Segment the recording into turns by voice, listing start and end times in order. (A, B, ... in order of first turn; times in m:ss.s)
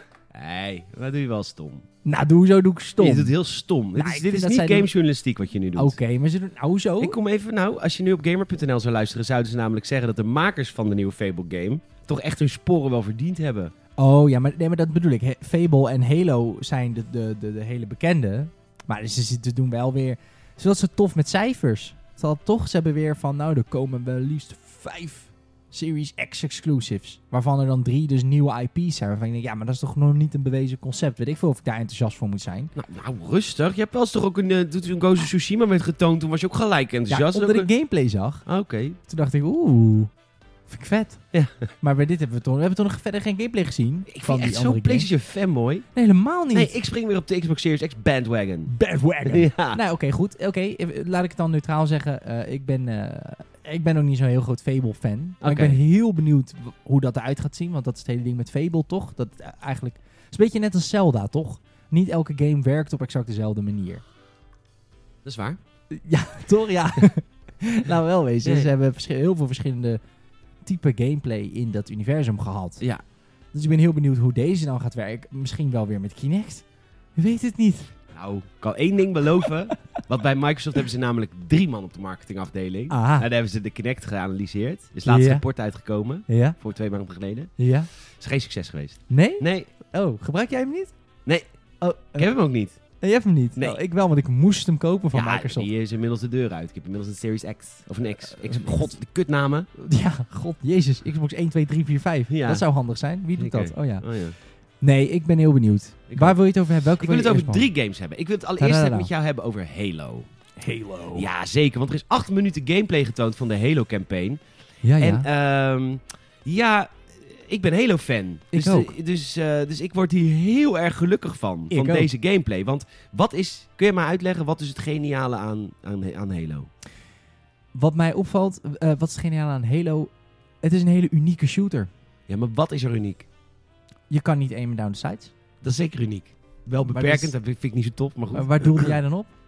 0:00.3-0:01.8 A
0:02.0-0:03.3 B
0:03.0-0:06.0 A
0:03.9-0:04.9 B
0:05.7-0:07.2 B
0:07.0-0:13.7 A
0:14.0-0:32.7 B
0:32.8-0:37.7 A
0:37.1-0:38.4 B
0:38.4-0:39.0 A
0:39.0-0:40.1 B
0:40.7-0:41.2 B
0:41.3-0:41.6 A
0:41.8-0:45.1 B
0:44.1-0:45.8 A
0:45.9-0:46.7 B
0:46.5-0:48.7 A
0:48.7-1:04.0 B
0:49.2-0:49.8 A
0:55.4-0:55.8 A
1:05.2-1:05.6 A
1:05.9-1:10.0 B
1:08.4-1:08.7 A
1:10.6-1:12.8 B
1:13.5-1:16.6 B
1:17.2-1:17.9 B
1:18.1-1:27.5 A
1:22.9-1:23.3 B
1:25.1-1:25.4 B
1:26.3-1:26.6 B
1:27.6-1:27.9 B
1:28.2-1:29.7 A
1:29.1-1:30.9 B
1:31.8-1:32.3 B
1:32.1-1:32.8 A
1:33.0-1:35.7 B
1:35.1-1:39.7 A
1:38.3-1:38.9 B
1:39.8-1:44.1 B
1:42.3-1:42.6 A
1:43.4-1:44.4 A
1:44.8-1:47.7 B
1:46.1-1:46.4 A
1:47.0-1:50.3 A
1:48.6-1:49.1 B
1:50.6-1:51.3 B
1:51.1-1:54.4 A
1:54.8-1:55.3 B
1:55.0-2:06.7 A
1:58.5-1:58.9 B
2:01.7-2:02.1 B
2:07.7-2:11.9 B
2:12.3-2:13.3 A
2:14.1-2:15.3 B
2:15.6-2:19.0 A
2:16.8-2:17.3 B
2:18.3-2:19.3 B